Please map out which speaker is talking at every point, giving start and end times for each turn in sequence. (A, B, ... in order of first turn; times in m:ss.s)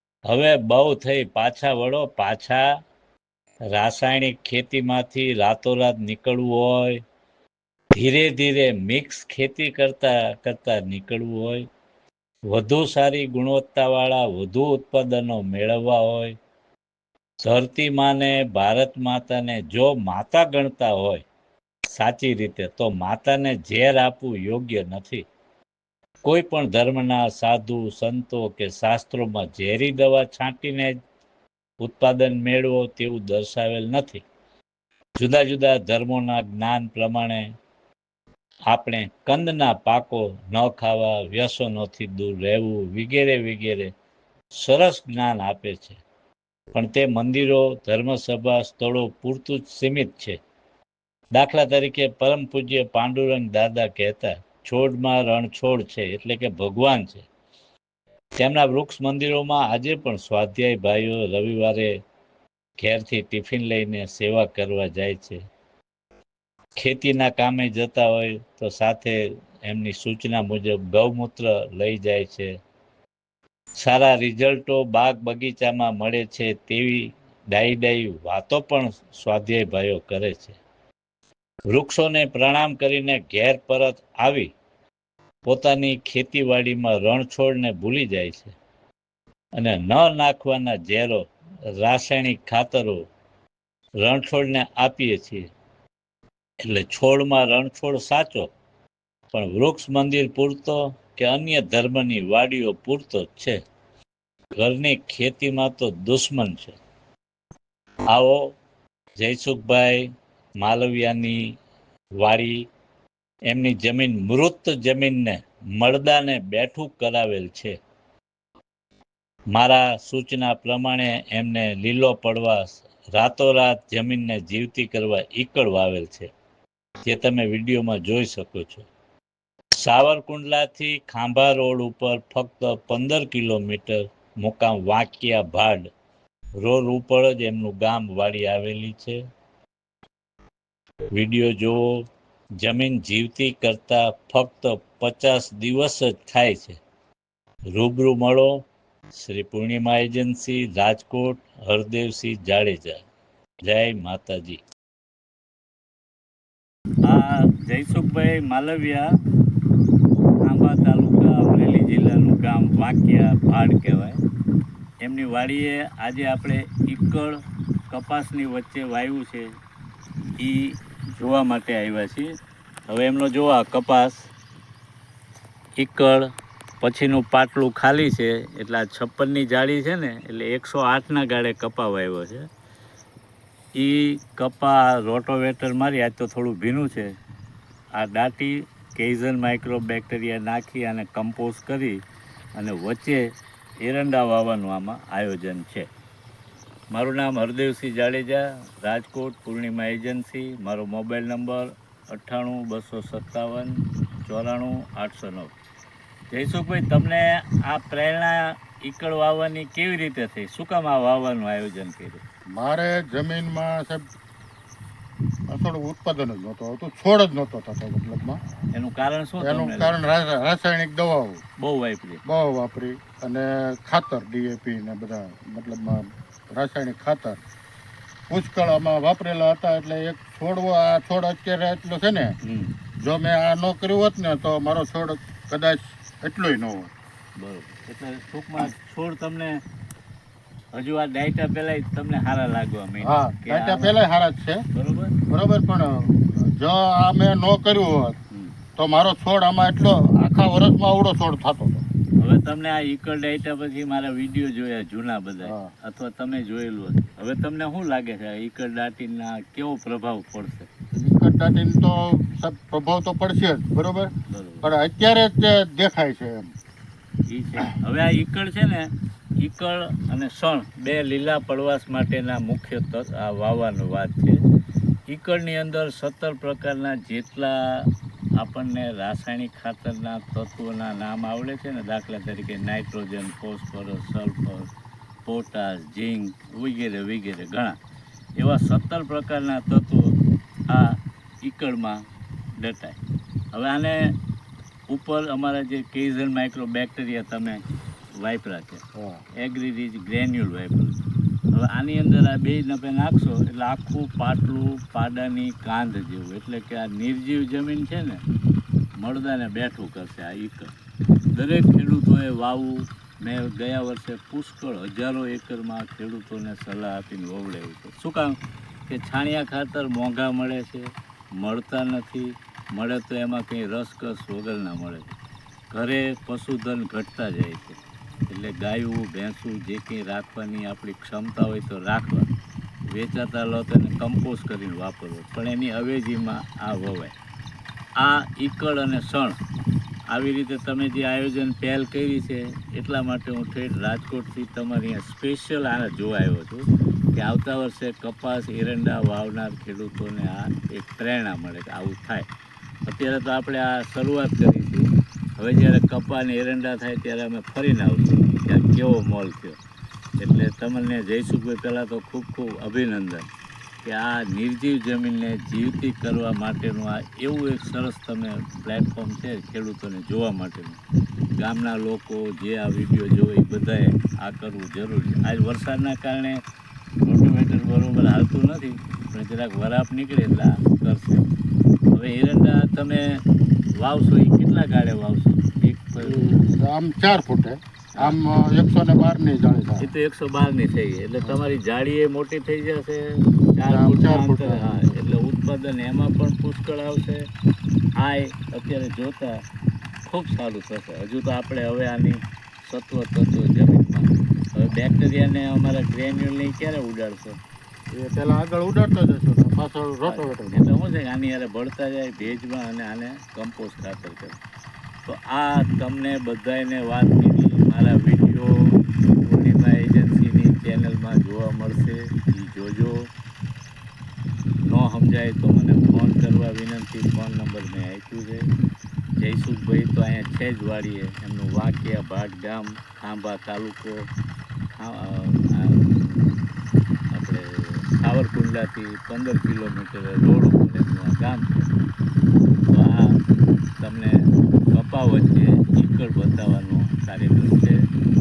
0:00.3-0:02.7 A
0:03.7-0:07.0 A
0:08.0-0:11.6 A
0:12.5-0:16.4 A
0:17.4-0:21.3 A
0:21.9-0:25.2 A
0:26.2-0:31.0 A
0:31.8-0:34.2 A
0:35.2-0:37.5 A
0:38.7-0:43.9 A
0:44.6-0:46.0 A
0:46.7-0:50.4 A
0:51.4-0:57.3 A
0:58.4-1:01.9 A
1:02.8-1:05.4 A
1:06.8-1:12.5 A
1:13.8-1:20.6 A
1:21.7-1:24.5 A
1:25.5-1:28.6 A
1:29.6-1:31.2 A
1:31.8-1:33.0 A
1:34.0-1:35.5 A
1:36.6-1:38.5 A
1:39.3-1:43.6 A
1:44.6-1:46.8 A
1:48.1-1:48.5 A
1:49.2-1:50.0 A
1:50.6-1:51.4 A
1:52.2-1:52.6 A
1:53.5-1:57.8 A
1:59.5-2:06.3 A
2:07.1-2:08.9 A
2:09.8-2:15.9 A
2:16.6-2:19.2 A
2:21.1-2:22.0 A
2:22.6-2:26.8 A
2:27.7-2:28.5 A
2:29.2-2:33.0 A
2:33.6-2:34.6 A
2:37.1-2:39.1 A
2:40.4-2:44.2 A
2:45.0-2:47.4 A
2:47.9-2:49.5 A
2:50.4-2:52.3 A
2:52.9-2:54.3 A
2:55.8-2:56.3 A
2:56.8-3:02.5 A
3:03.8-3:07.2 A
3:08.0-3:12.0 A
3:12.6-3:13.3 A
3:13.8-3:15.9 A
3:16.9-3:25.5 A
3:26.3-3:32.2 A
3:32.6-3:34.0 B
3:35.5-3:38.4 B
3:38.7-3:40.0 A
3:39.4-3:41.4 B
3:41.6-3:42.2 A
3:42.2-3:47.4 B
3:48.3-3:52.3 B
3:52.4-3:52.7 A
3:53.0-3:56.9 B
3:57.4-3:59.6 A
4:00.8-4:04.0 A
4:03.0-4:04.6 B
4:04.7-4:05.1 A
4:05.3-4:08.2 B
4:08.8-4:11.8 B
4:12.2-4:20.7 A
4:15.4-4:15.7 B
4:20.9-4:24.1 B
4:24.3-4:24.7 A
4:24.6-4:26.5 B
4:27.3-4:28.9 A
4:29.4-4:34.4 A
4:35.1-4:44.7 A
4:45.2-4:47.8 A
4:48.4-4:50.2 A
4:50.7-4:52.0 A
4:52.6-4:53.0 A
4:53.5-4:54.2 A
4:54.9-4:57.6 A
4:58.2-4:58.8 A
4:59.0-4:59.2 B
4:59.4-5:01.0 A
5:01.5-5:08.2 A
5:09.0-5:10.7 A
5:11.3-5:18.4 A
5:18.9-5:25.2 A
5:25.7-5:32.3 A
5:32.9-5:37.1 A
5:38.0-5:39.4 A
5:40.1-5:52.3 A
5:52.9-5:59.6 A
6:00.2-6:03.3 A
6:03.8-6:10.8 A
6:11.4-6:16.4 A
6:17.0-6:21.3 A
6:21.9-6:23.2 A
6:23.8-6:26.3 A
6:26.0-6:29.9 B
6:29.8-6:37.3 A
6:33.7-6:35.0 B
6:38.0-6:39.4 A
6:40.0-6:47.4 A
6:48.0-6:50.7 B
6:50.1-6:54.4 A
6:55.0-7:03.1 A
7:04.7-7:08.5 A
7:09.2-7:14.1 A
7:14.7-7:16.4 A
7:17.1-7:21.7 A
7:22.7-7:23.2 A
7:23.8-7:27.8 A